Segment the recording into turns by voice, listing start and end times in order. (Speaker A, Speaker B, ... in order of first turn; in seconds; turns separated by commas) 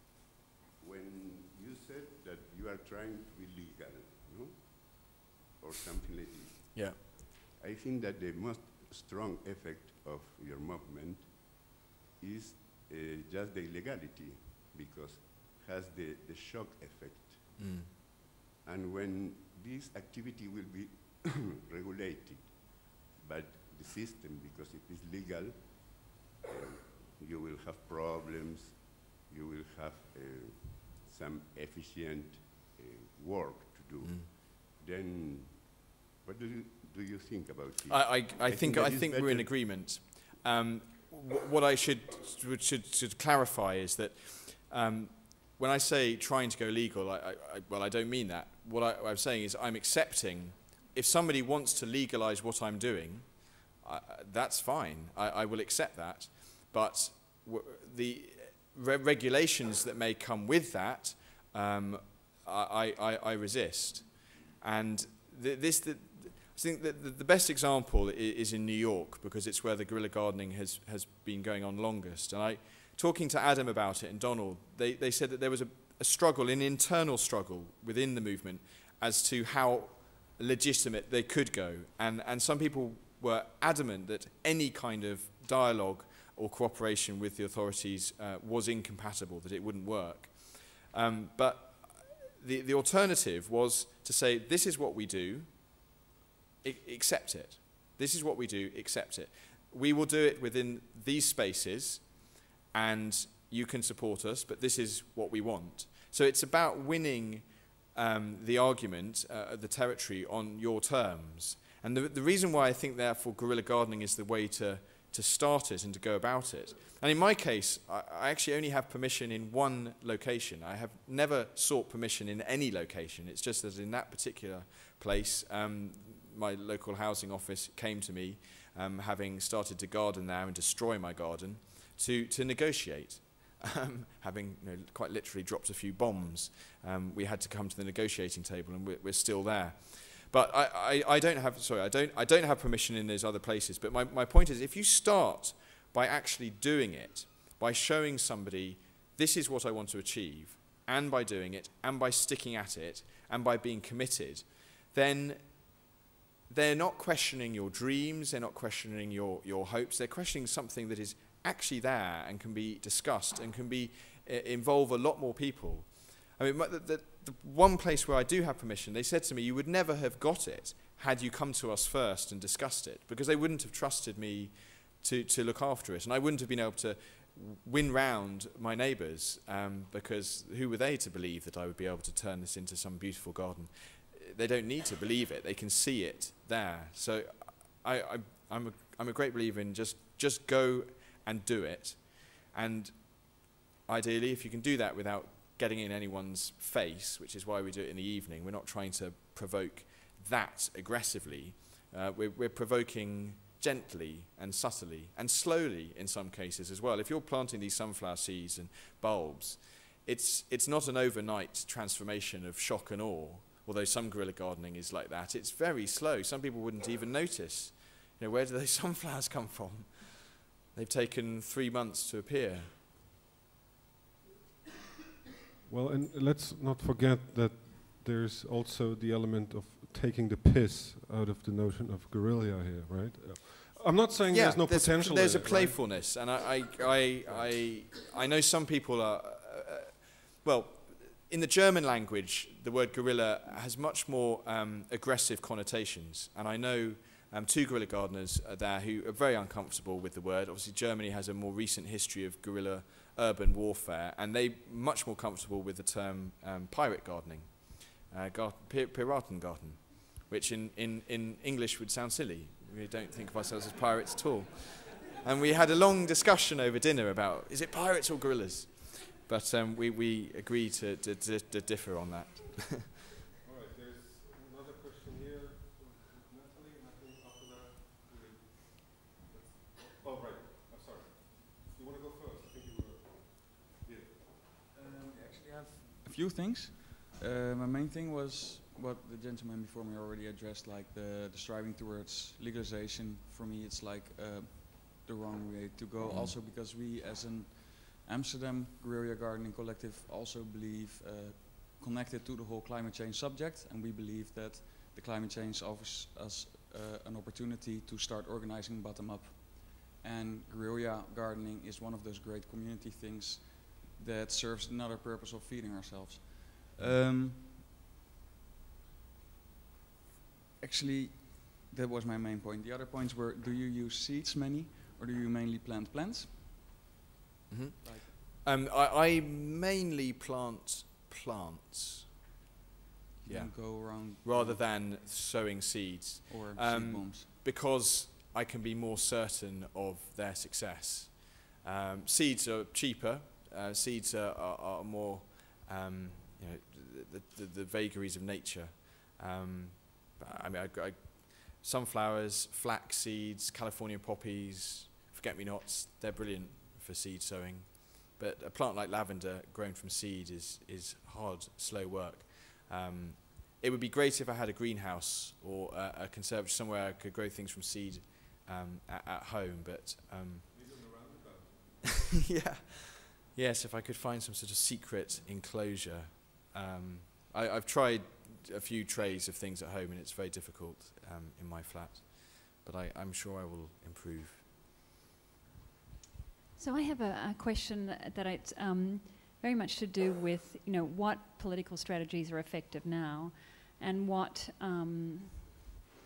Speaker A: 0.8-39.5, Speaker B: 17.6-17.9, Speaker B: 37.9-95.5, Speaker B: 96.6-155.4, Speaker B: 156.5-222.7, Speaker C: 225.7-235.8, Speaker B: 234.3-273.0, Speaker C: 237.3-237.5, Speaker C: 273.4-284.5, Speaker D: 284.7-317.6, Speaker B: 296.0-296.3, Speaker D: 320.6-326.4, Speaker B: 327.5-332.1, Speaker D: 327.8-328.1, Speaker D: 333.2-334.6, Speaker B: 333.2-370.5, Speaker D: 336.3-337.3, Speaker C: 370.5-372.1, Speaker B: 372.2-384.4, Speaker E: 386.6-395.5